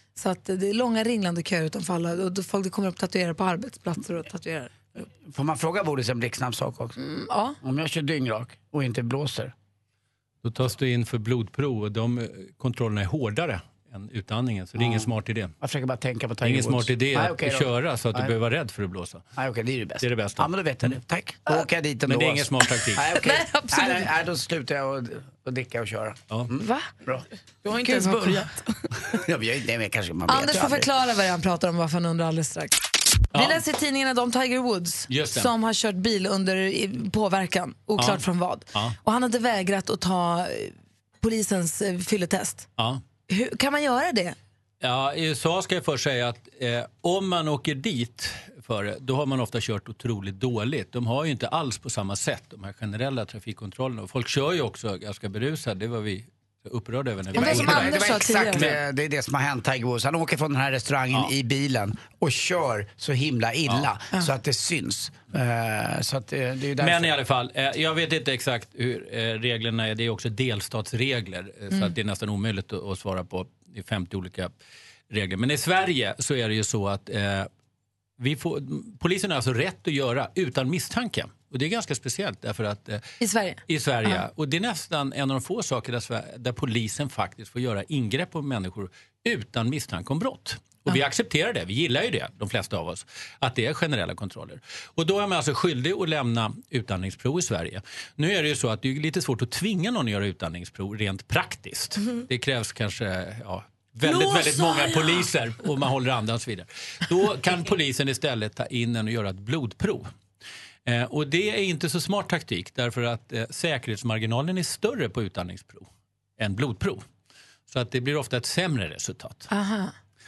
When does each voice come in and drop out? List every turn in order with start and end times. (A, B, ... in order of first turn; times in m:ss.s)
0:00.2-0:04.7 A
0:05.0-0:07.0 B
0:07.0-0:07.6 A
0:07.6-0:09.5 B
0:10.4-0:15.5 C
0:14.8-0:15.1 B
0:15.6-0:18.3 B
0:16.4-0:19.2 C
0:19.4-0:27.2 B
0:20.0-0:21.0 C
0:22.1-0:23.1 C
0:23.2-0:24.1 A
0:26.6-0:26.9 A
0:27.6-0:28.8 D
0:27.7-0:28.4 A
0:29.1-0:30.9 B
0:30.3-0:32.7 A
0:33.3-0:42.7 A
0:33.3-0:33.6 C
0:35.1-0:35.5 C
0:38.0-0:38.2 C
0:43.3-0:44.4 A
0:44.8-0:58.8 C
0:57.3-0:58.7 A
0:57.3-1:07.1 B
1:06.8-1:14.5 C
1:15.1-1:17.5 C
1:18.2-1:23.0 C
1:23.2-1:24.2 A
1:23.7-1:50.1 C
1:44.0-1:45.2 D
1:50.8-1:57.0 C
1:57.7-1:59.5 C
1:59.5-1:59.9 A